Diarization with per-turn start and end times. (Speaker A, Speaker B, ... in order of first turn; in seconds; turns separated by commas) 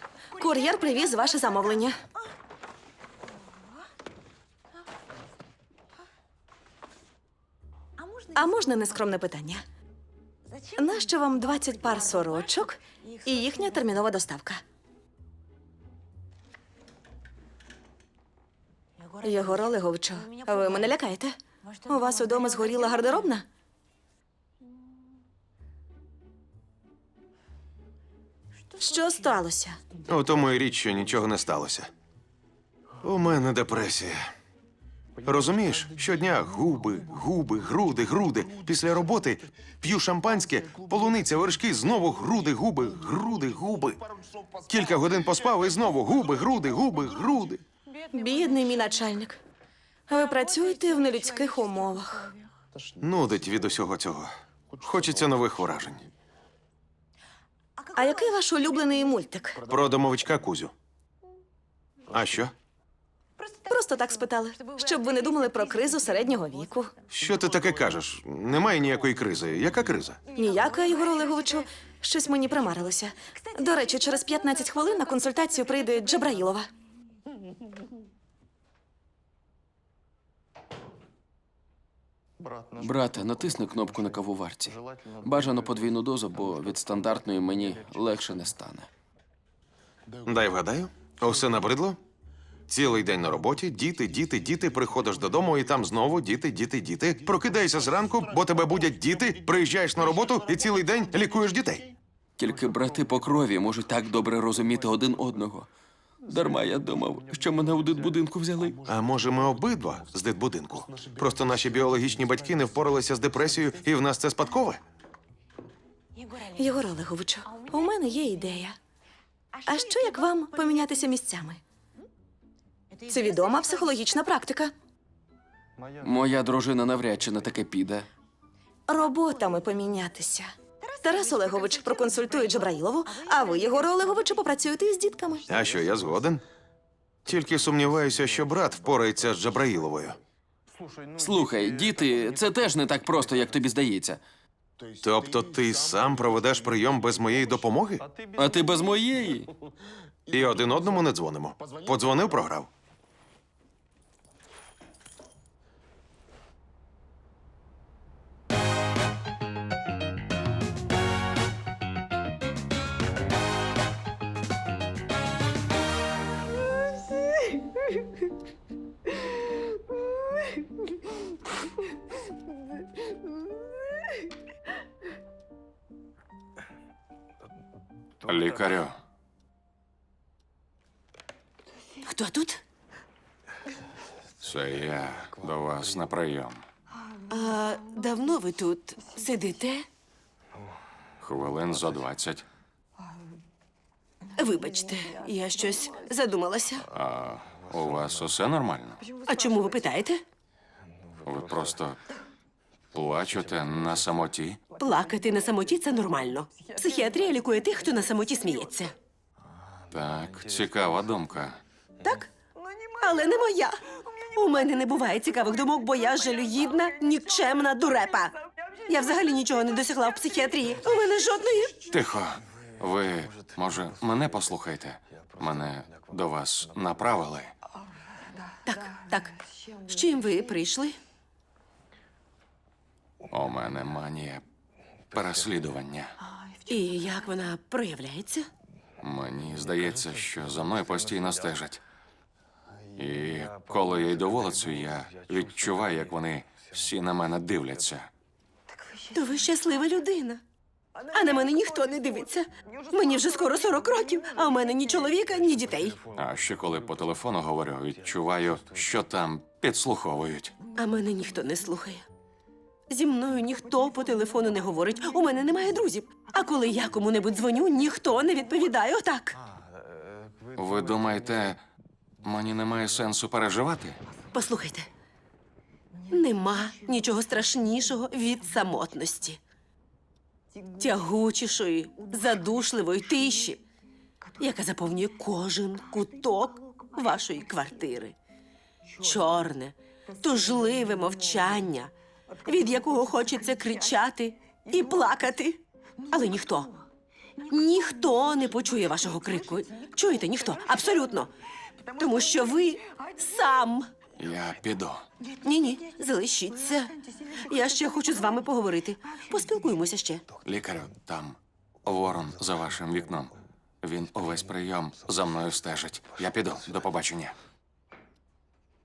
Speaker A: 0.3-2.0, Speaker A: 8.3-9.7, Speaker A: 10.8-14.6, Speaker A: 19.2-23.4, Speaker A: 28.8-29.8, Speaker B: 30.1-31.9, Speaker B: 33.0-34.2, Speaker B: 35.2-44.0, Speaker B: 44.7-47.6, Speaker A: 48.1-49.4, Speaker A: 50.1-52.3, Speaker B: 53.0-56.0, Speaker A: 58.0-59.6, Speaker B: 59.7-60.7, Speaker B: 62.1-62.5, Speaker A: 63.7-66.9, Speaker B: 67.1-70.2, Speaker A: 70.4-76.7, Speaker C: 82.8-88.9, Speaker B: 90.2-92.0, Speaker B: 92.7-101.9, Speaker C: 102.4-105.7, Speaker C: 106.3-108.8, Speaker B: 108.9-114.8, Speaker A: 116.6-118.8, Speaker A: 119.7-121.6, Speaker A: 123.1-124.7, Speaker C: 126.0-128.1, Speaker A: 128.9-135.4, Speaker B: 135.5-136.4, Speaker B: 137.2-140.2, Speaker C: 141.2-144.2, Speaker B: 145.0-148.1, Speaker C: 148.4-149.5, Speaker B: 150.3-152.7, Speaker D: 178.3-178.9, Speaker E: 182.1-182.6, Speaker D: 184.4-186.6, Speaker E: 187.3-189.9, Speaker D: 191.2-192.4, Speaker E: 194.4-196.8, Speaker D: 196.9-199.0, Speaker E: 199.3-200.2, Speaker D: 201.2-202.0, Speaker D: 202.9-204.6, Speaker E: 204.8-208.9, Speaker D: 209.9-211.6, Speaker E: 212.0-212.3, Speaker E: 213.0-213.8, Speaker E: 214.3-218.3, Speaker E: 218.9-221.8, Speaker D: 221.9-227.5, Speaker E: 228.7-229.3, Speaker E: 229.9-231.0, Speaker D: 233.3-234.4, Speaker D: 235.1-236.1, Speaker E: 236.7-238.5, Speaker D: 239.0-241.8, Speaker D: 243.0-248.1, Speaker E: 249.1-250.4, Speaker E: 251.1-256.0, Speaker D: 256.1-260.5, Speaker E: 260.8-262.0, Speaker E: 262.9-269.4, Speaker D: 270.6-271.6, Speaker D: 272.2-274.0, Speaker E: 274.3-274.9, Speaker E: 276.1-279.4, Speaker E: 280.8-283.6, Speaker E: 284.4-288.1, Speaker E: 289.0-291.9, Speaker E: 292.4-295.6, Speaker E: 296.1-296.7, Speaker E: 297.5-301.3, Speaker E: 302.0-303.9, Speaker D: 304.2-305.1, Speaker E: 305.4-306.9, Speaker E: 307.5-310.2, Speaker D: 310.4-317.3